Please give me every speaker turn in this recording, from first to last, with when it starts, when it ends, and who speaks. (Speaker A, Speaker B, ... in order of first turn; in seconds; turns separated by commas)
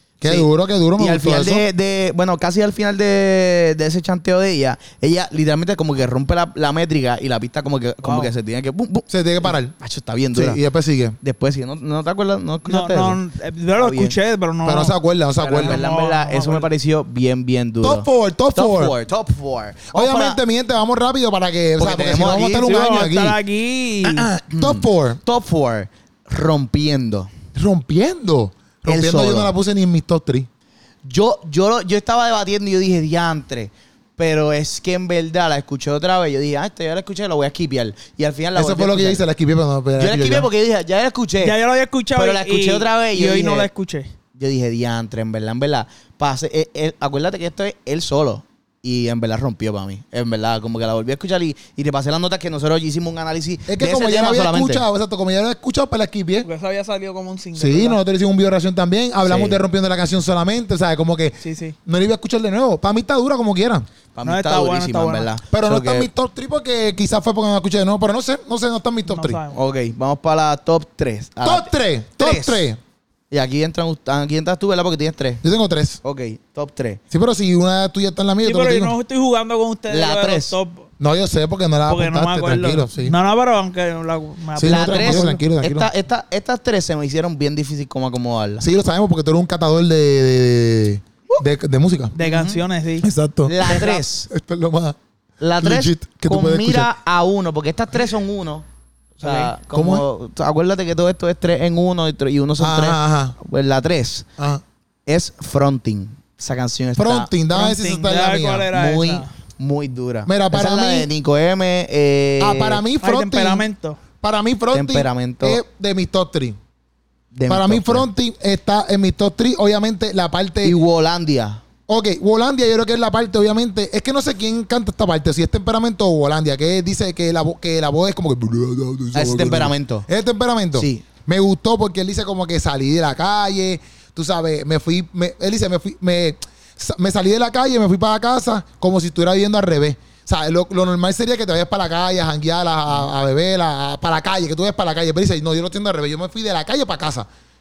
Speaker A: 0.2-1.6, Speaker B: 0.2-10.6, Speaker C: 8.0-8.3, Speaker A: 9.1-9.7, Speaker A: 10.3-11.2, Speaker B: 11.2-13.2, Speaker C: 12.7-14.9, Speaker B: 13.8-14.2, Speaker A: 14.6-15.8, Speaker B: 15.4-20.4, Speaker C: 15.5-16.7, Speaker A: 17.8-18.9, Speaker A: 19.9-23.4, Speaker B: 21.8-22.7, Speaker C: 22.5-24.3, Speaker A: 24.0-25.2, Speaker B: 24.5-27.3, Speaker A: 27.5-30.5, Speaker B: 28.9-29.5, Speaker B: 31.0-39.2, Speaker A: 38.5-40.5, Speaker B: 40.0-41.5, Speaker C: 41.4-44.1, Speaker B: 42.1-43.7, Speaker B: 44.4-54.8, Speaker A: 53.7-56.5, Speaker C: 56.4-58.0, Speaker A: 57.5-63.9, Speaker B: 59.2-59.6, Speaker C: 61.4-61.8, Speaker B: 64.1-66.1, Speaker C: 64.2-65.3, Speaker A: 65.5-69.4, Speaker C: 69.1-69.6, Speaker B: 69.5-72.7, Speaker A: 71.4-72.8, Speaker B: 73.3-75.4, Speaker A: 75.4-76.0, Speaker B: 76.0-77.0, Speaker A: 77.1-78.9, Speaker C: 78.4-80.9, Speaker B: 79.9-80.5, Speaker A: 81.0-83.2, Speaker C: 81.9-85.3, Speaker A: 84.5-85.9, Speaker B: 84.6-88.6, Speaker A: 88.6-92.1, Speaker C: 92.2-93.1, Speaker B: 92.2-92.6, Speaker A: 93.0-95.0, Speaker B: 93.5-94.3, Speaker C: 93.6-94.0, Speaker B: 95.4-98.6, Speaker A: 95.6-96.9, Speaker B: 99.2-104.2, Speaker C: 99.2-99.5, Speaker A: 99.7-100.0, Speaker A: 102.6-103.3, Speaker B: 105.0-107.3, Speaker A: 107.0-109.0, Speaker C: 107.5-109.3, Speaker B: 108.8-112.8, Speaker A: 110.2-111.1, Speaker A: 112.4-113.7, Speaker C: 113.0-114.0, Speaker A: 114.2-116.6, Speaker B: 114.7-115.6, Speaker B: 117.3-118.0, Speaker A: 117.5-120.8, Speaker B: 120.6-121.6, Speaker A: 121.9-147.3, Speaker B: 129.1-130.1, Speaker B: 130.7-131.0